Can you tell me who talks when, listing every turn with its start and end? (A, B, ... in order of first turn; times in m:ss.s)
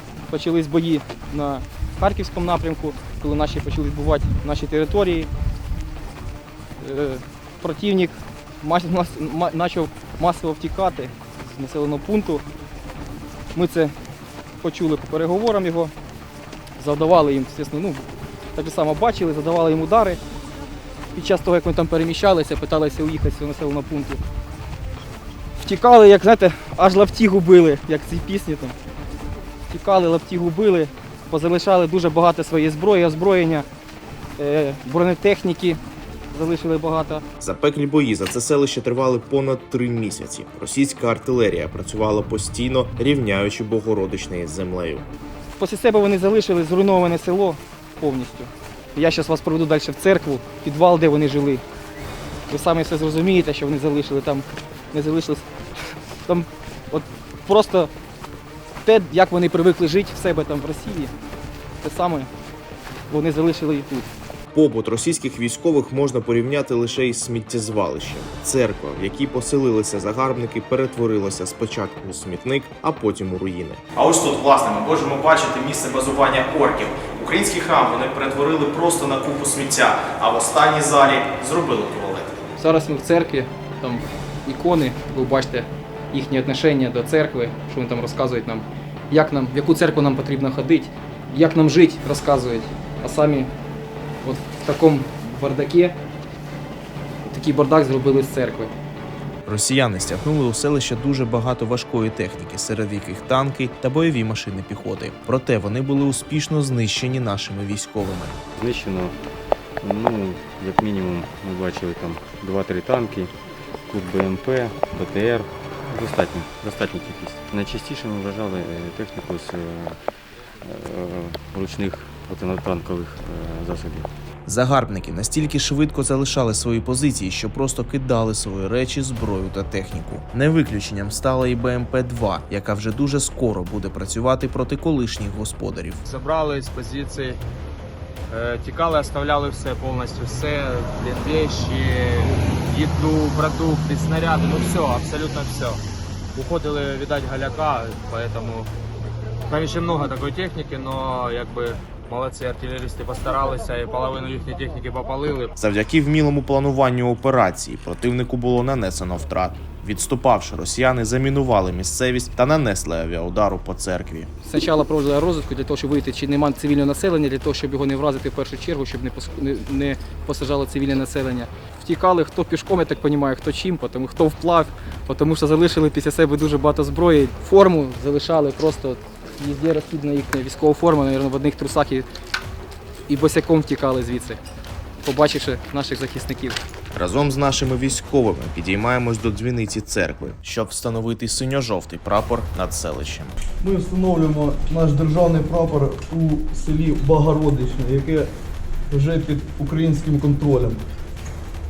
0:00.3-0:05.3 A
0:06.8-0:12.4 A
0:13.5-0:13.9 A
0:14.6-0:15.9 A
0:16.8-0:20.2 A
0:21.1-0:24.2 A
0:25.6-0:28.8 A
0:29.7-0:33.6 A
0:34.4-0:35.8 A
0:36.3-0:37.2 A
0:37.4-0:45.0 B
0:45.6-0:51.6 A
0:52.5-0:55.4 A
0:56.2-0:57.9 A
0:58.8-1:01.1 A
1:01.8-1:02.3 A
1:03.1-1:04.1 A
1:04.5-1:22.4 B
1:22.6-1:33.5 A
1:34.2-1:36.0 A
1:37.3-1:38.7 A
1:39.4-1:48.4 B
1:48.6-1:49.2 C
1:49.8-1:53.3 C
1:53.9-2:00.0 C
2:00.6-2:04.1 C
2:04.5-2:16.0 B
2:16.0-2:17.4 D
2:18.3-2:25.8 D
2:26.3-2:28.7 D
2:29.5-2:35.5 D
2:35.6-2:44.3 B
2:44.4-3:02.0 A
3:03.1-3:04.4 A
3:05.0-3:06.6 A
3:06.9-3:13.4 B
3:13.6-3:18.3 E
3:18.9-3:20.8 E